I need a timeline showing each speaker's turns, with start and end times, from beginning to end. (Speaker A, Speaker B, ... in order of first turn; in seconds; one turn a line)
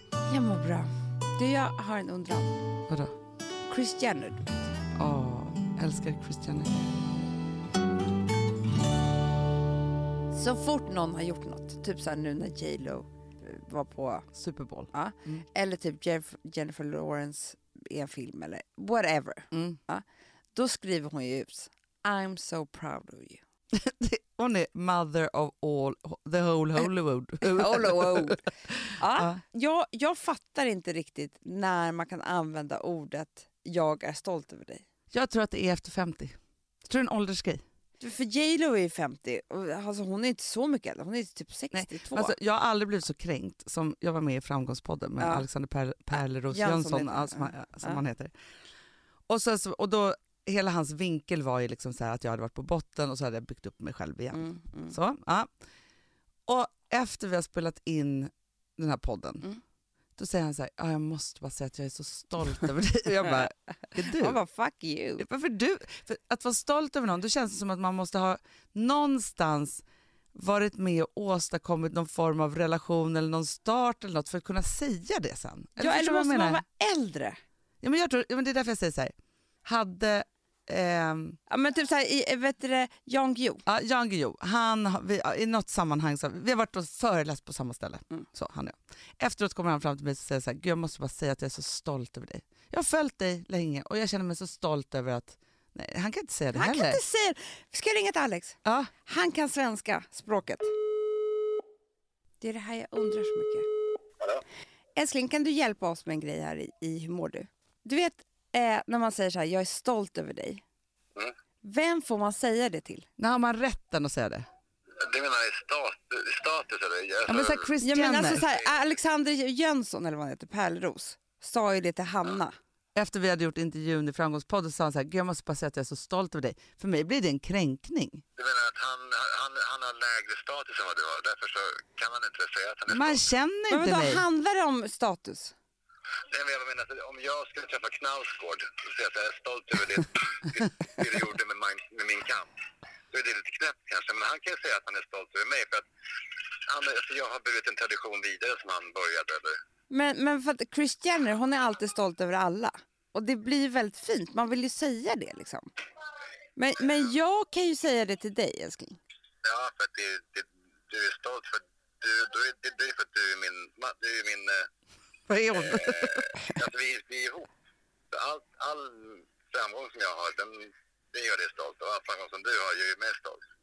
Speaker A: 0.2-2.6
Speaker A: 3.6-4.7
Speaker B: 5.0-6.7
Speaker A: 10.3-14.3
Speaker B: 14.3-15.4
Speaker A: 14.9-20.0
Speaker B: 19.5-19.8
Speaker A: 20.5-23.4
Speaker B: 23.7-29.4
Speaker A: 27.4-34.8
Speaker B: 35.1-37.6
Speaker A: 38.0-42.3
Speaker B: 41.7-48.3
Speaker A: 45.2-45.4
Speaker A: 46.5-48.0
Speaker B: 49.3-55.5
Speaker A: 54.3-55.0
Speaker B: 56.5-59.5
Speaker B: 60.2-64.4
Speaker A: 64.1-65.2
Speaker B: 65.2-69.8
Speaker B: 70.3-76.6
Speaker A: 75.8-77.4
Speaker B: 77.8-79.1
Speaker B: 79.6-81.4
Speaker A: 81.5-83.6
Speaker B: 83.7-97.0
Speaker A: 96.5-100.7
Speaker B: 98.6-98.9
Speaker A: 102.4-103.7
Speaker A: 105.0-110.6
Speaker A: 111.6-113.1
Speaker B: 113.2-114.5
Speaker C: 115.0-117.7
Speaker B: 117.3-118.4
Speaker A: 117.8-122.5
Speaker B: 123.0-128.2
Speaker C: 128.4-133.2
Speaker B: 132.9-134.2
Speaker A: 133.7-135.5
Speaker C: 136.3-142.5
Speaker C: 143.1-145.8
Speaker C: 146.7-149.5
Speaker A: 149.9-155.7
Speaker A: 156.6-159.0
Speaker C: 159.4-164.6
Speaker B: 165.3-166.4
Speaker C: 165.5-167.5
Speaker C: 168.1-173.4